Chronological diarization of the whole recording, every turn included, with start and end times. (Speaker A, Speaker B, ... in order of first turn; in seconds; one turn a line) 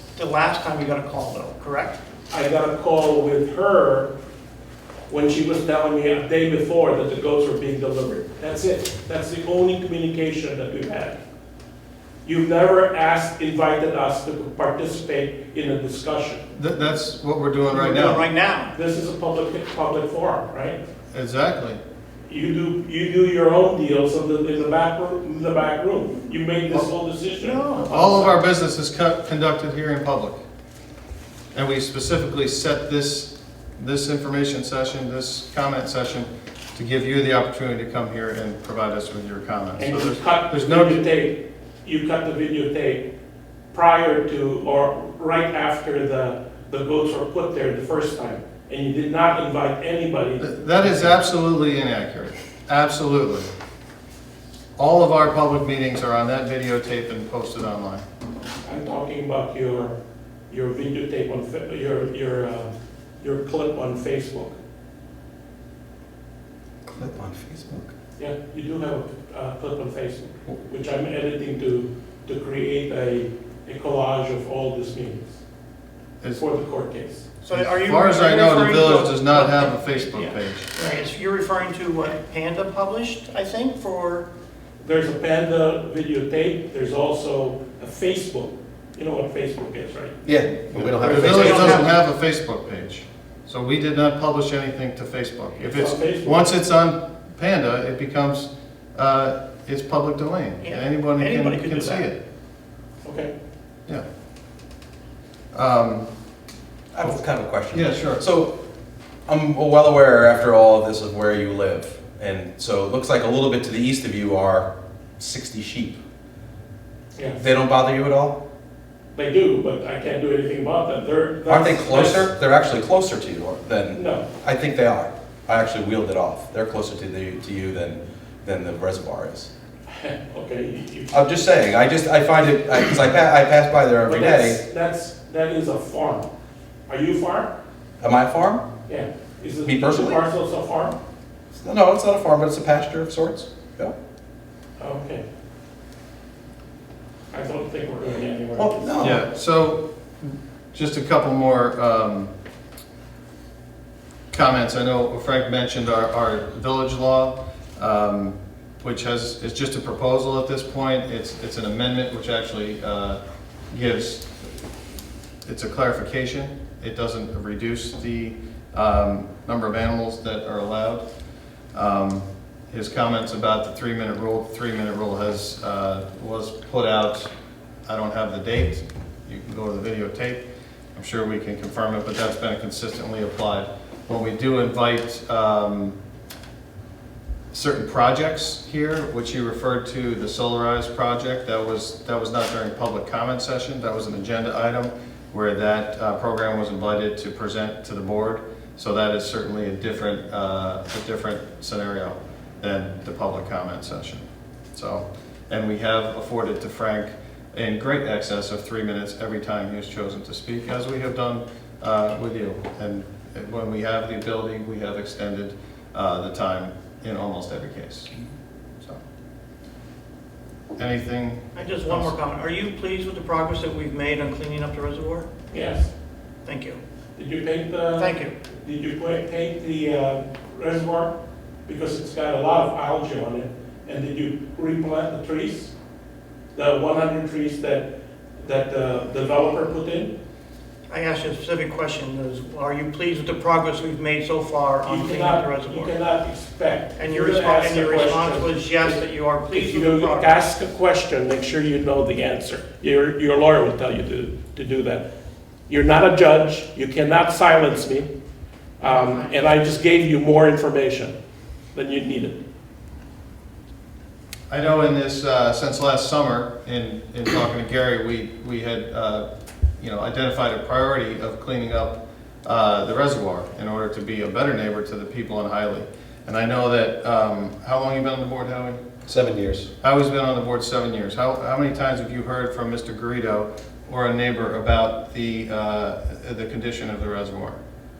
Speaker A: 0.1-2.0
Speaker B: 2.3-4.1
Speaker B: 5.1-11.2
Speaker B: 12.2-16.4
Speaker C: 16.5-18.2
Speaker A: 17.7-18.7
Speaker B: 18.7-20.8
Speaker C: 21.1-21.8
Speaker B: 22.3-28.4
Speaker A: 27.4-27.9
Speaker C: 27.8-30.4
Speaker C: 31.5-41.0
Speaker B: 39.8-43.0
Speaker B: 43.7-51.1
Speaker C: 50.4-53.5
Speaker C: 54.8-58.0
Speaker B: 58.6-59.9
Speaker B: 60.5-64.6
Speaker D: 66.9-67.9
Speaker B: 68.2-75.4
Speaker B: 76.3-77.2
Speaker C: 77.4-80.7
Speaker A: 77.5-84.3
Speaker B: 84.8-90.2
Speaker D: 90.2-91.9
Speaker A: 90.7-91.9
Speaker C: 91.0-102.2
Speaker B: 91.0-91.6
Speaker B: 95.6-96.5
Speaker A: 100.6-102.0
Speaker B: 103.0-103.3
Speaker C: 105.5-106.1
Speaker D: 106.9-108.5
Speaker C: 107.7-108.2
Speaker D: 109.3-116.0
Speaker B: 117.1-117.4
Speaker D: 117.4-118.4
Speaker B: 119.1-122.3
Speaker D: 121.5-129.5
Speaker B: 123.9-124.2
Speaker B: 129.9-131.1
Speaker D: 131.1-134.6
Speaker B: 134.0-136.3
Speaker B: 136.9-137.5
Speaker D: 138.0-138.6
Speaker B: 138.9-141.0
Speaker D: 139.6-140.2
Speaker D: 141.5-143.9
Speaker B: 144.8-145.2
Speaker B: 147.3-149.2
Speaker D: 148.5-149.2
Speaker C: 149.0-152.3
Speaker C: 154.3-163.2
Speaker C: 163.7-164.7
Speaker C: 165.4-171.0
Speaker C: 171.7-177.3
Speaker C: 177.9-185.9
Speaker C: 187.5-218.2
Speaker C: 220.8-222.1
Speaker A: 221.5-225.3
Speaker B: 225.5-225.9
Speaker A: 226.4-226.8
Speaker B: 227.2-231.1
Speaker A: 228.0-228.3
Speaker B: 231.7-235.7
Speaker B: 236.5-237.9
Speaker B: 238.4-240.1
Speaker A: 240.9-245.9
Speaker B: 244.8-249.0
Speaker A: 247.0-250.4
Speaker B: 249.5-255.0
Speaker B: 255.7-258.1
Speaker B: 258.8-261.1
Speaker A: 258.8-259.3
Speaker B: 261.7-262.4
Speaker C: 264.5-269.2
Speaker C: 269.8-278.8
Speaker D: 279.1-279.7
Speaker C: 279.8-287.6